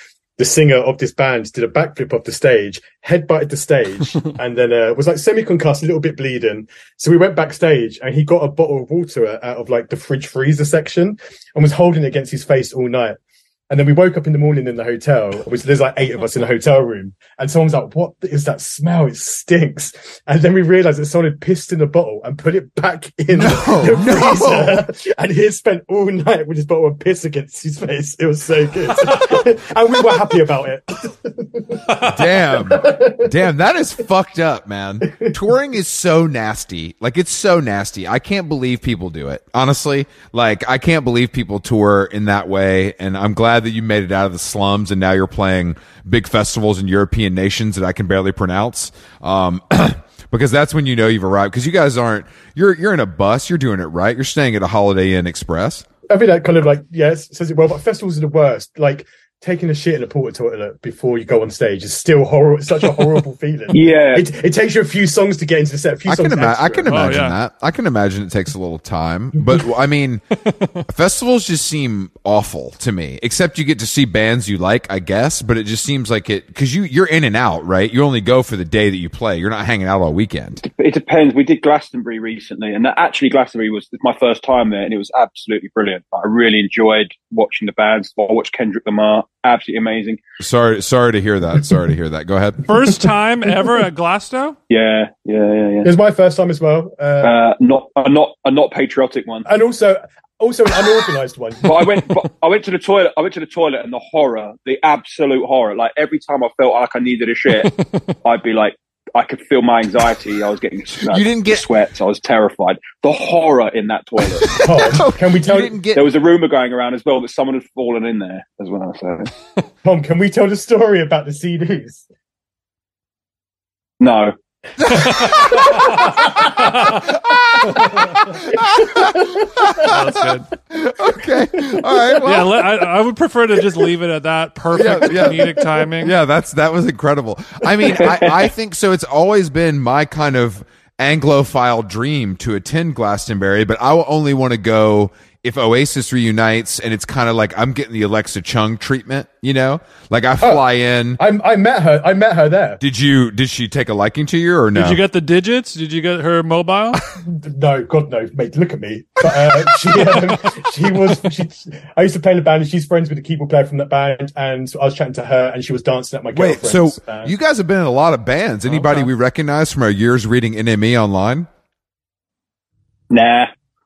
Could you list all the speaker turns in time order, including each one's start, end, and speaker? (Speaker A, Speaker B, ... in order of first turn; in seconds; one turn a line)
Speaker A: 0.4-13.2
Speaker A: 13.7-33.3
Speaker B: 23.3-24.9
Speaker B: 32.0-55.9
Speaker A: 56.1-67.1
Speaker C: 63.7-64.3
Speaker B: 66.1-70.2
Speaker D: 66.9-67.4
Speaker D: 70.4-70.8
Speaker B: 70.9-80.6
Speaker C: 80.6-90.2
Speaker B: 90.4-92.6
Speaker D: 92.7-94.6
Speaker C: 94.7-95.9
Speaker A: 95.8-97.3
Speaker C: 97.2-99.5
Speaker A: 99.5-101.8
Speaker C: 101.6-107.7
Speaker D: 107.6-108.1
Speaker C: 108.2-114.6
Speaker B: 111.0-111.7
Speaker B: 114.5-116.0
Speaker A: 114.6-115.8
Speaker C: 115.9-119.3
Speaker A: 119.8-122.0
Speaker C: 124.0-124.3
Speaker B: 124.8-125.9
Speaker D: 124.9-127.0
Speaker C: 124.9-125.2
Speaker A: 125.3-126.7
Speaker B: 126.9-132.7
Speaker A: 127.8-129.8
Speaker D: 129.8-130.5
Speaker D: 132.2-136.1
Speaker B: 134.7-151.2
Speaker C: 138.0-138.5
Speaker A: 151.2-152.8
Speaker B: 152.8-155.0
Speaker D: 154.7-157.0
Speaker A: 157.2-167.3
Speaker B: 166.3-171.5
Speaker D: 168.7-169.1
Speaker C: 173.1-173.5